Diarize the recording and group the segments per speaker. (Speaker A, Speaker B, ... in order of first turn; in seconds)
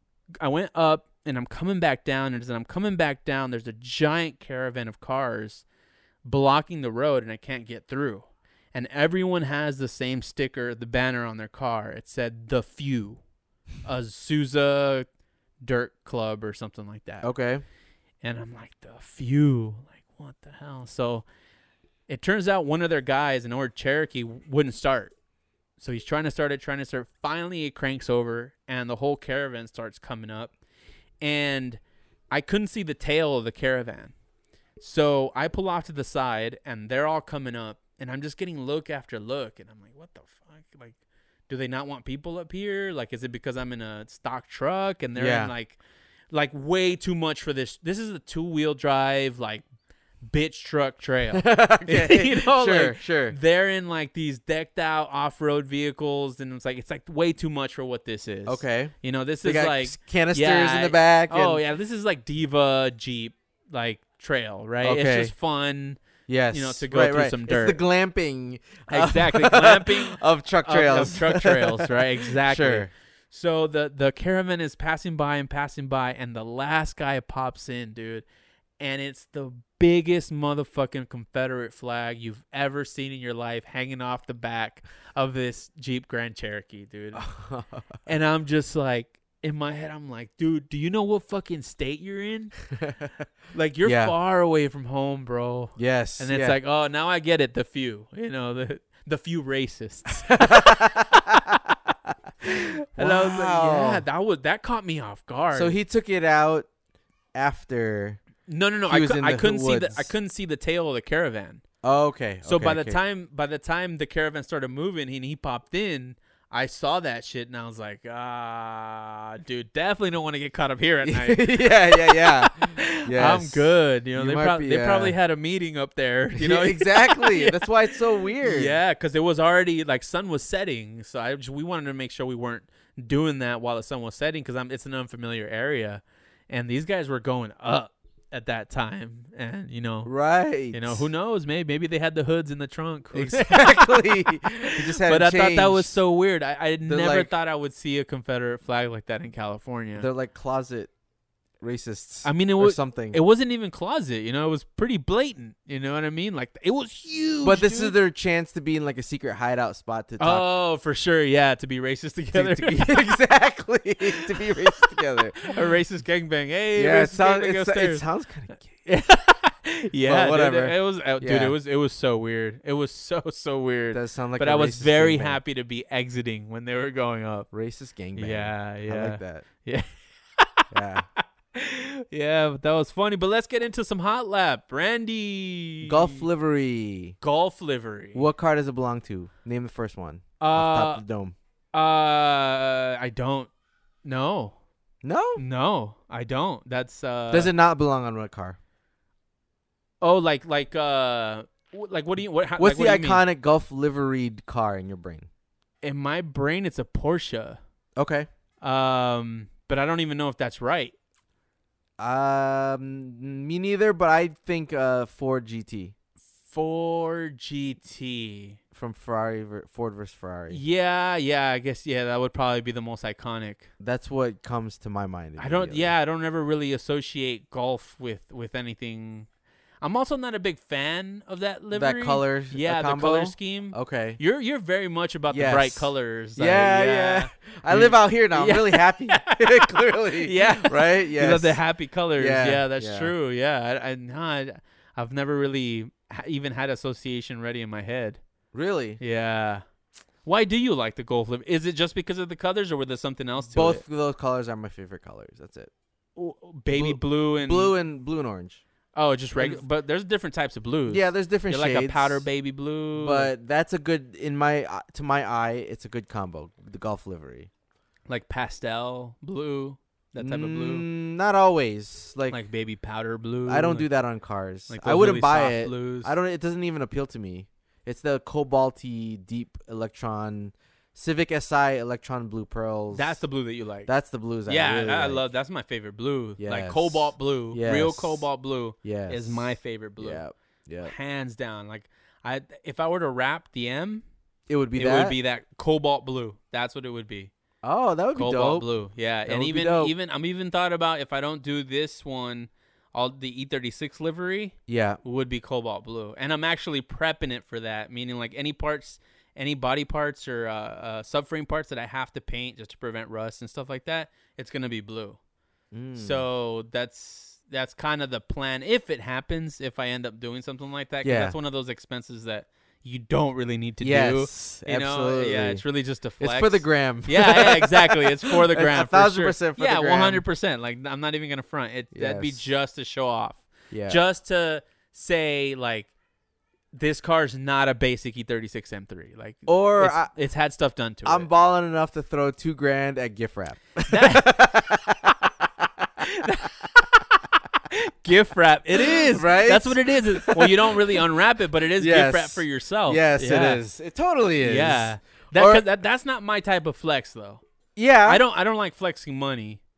Speaker A: 0.4-5.7, 6.2-13.2, 13.8-15.1, 15.6-17.3, 18.2-21.2, 22.1-25.1, 25.8-30.5, 31.2-31.8, 32.3-34.1, 34.8-41.0, 41.5-45.8, 46.3-49.6, 50.2-66.0, 66.5-67.8, 68.9-78.3, 78.8-87.2, 88.1-92.5, 93.5-101.3, 102.4-105.8, 108.5-111.6, 112.5-140.1, 140.7-150.1, 152.2-158.0, 160.2-163.2, 164.1-168.1, 168.6-177.5, 178.2-186.2, 187.2-188.3, 190.4-191.0, 191.7-193.5, 194.1-194.6, 195.4-197.5, 200.0-203.2, 205.8-207.6, 208.6-210.9, 216.5-218.6, 220.5-223.7, 225.4-229.3, 229.8-248.2, 249.0-249.6, 250.2-253.8, 256.2-257.8, 258.9-263.3, 268.1-270.9, 272.3-273.9, 274.7-276.1, 282.9-283.9, 284.5-290.2, 290.8-294.0, 294.8-297.3, 298.1-315.2, 315.9-335.9, 336.7-341.3, 343.9-344.5, 346.0-353.6, 354.4-357.4, 358.1-359.6
Speaker B: 17.2-17.6, 45.2-45.5, 51.3-53.4, 58.5-61.6, 64.8-65.3, 66.3-72.9, 87.2-87.9, 92.8-93.1, 93.8-94.1, 95.8-96.6, 100.3-101.8, 102.5-104.0, 105.5-106.7, 107.3-108.2, 108.9-110.1, 111.8-113.0, 121.0-125.2, 126.4-128.8, 140.1-141.1, 143.1-146.0, 146.9-147.3, 150.0-150.9, 151.6-153.2, 157.4-160.4, 162.3-165.6, 166.8-168.7, 170.0-171.6, 173.9-175.4, 177.5-179.5, 180.7-181.1, 185.8-187.2, 188.1-191.3, 195.0-195.4, 197.3-198.6, 202.6-205.3, 208.0-208.3, 212.0-215.9, 218.7-220.6, 223.8-225.9, 231.7-234.2, 235.3-241.6, 242.2-243.1, 248.5-249.0, 253.5-255.7, 256.7-258.6, 259.4-259.6, 260.9-262.3, 263.0-267.5, 270.2-272.4, 273.5-283.2, 283.9-285.2, 286.4-288.2, 288.8-290.9, 294.5-295.2, 297.6-298.7, 299.3-299.9, 304.7-305.0, 315.7-316.2, 321.0-321.4, 323.8-325.6, 326.2-330.2, 331.9-332.4, 333.7-334.0, 339.5-340.1, 341.1-346.1, 348.8-351.0, 351.8-355.6, 357.8-358.2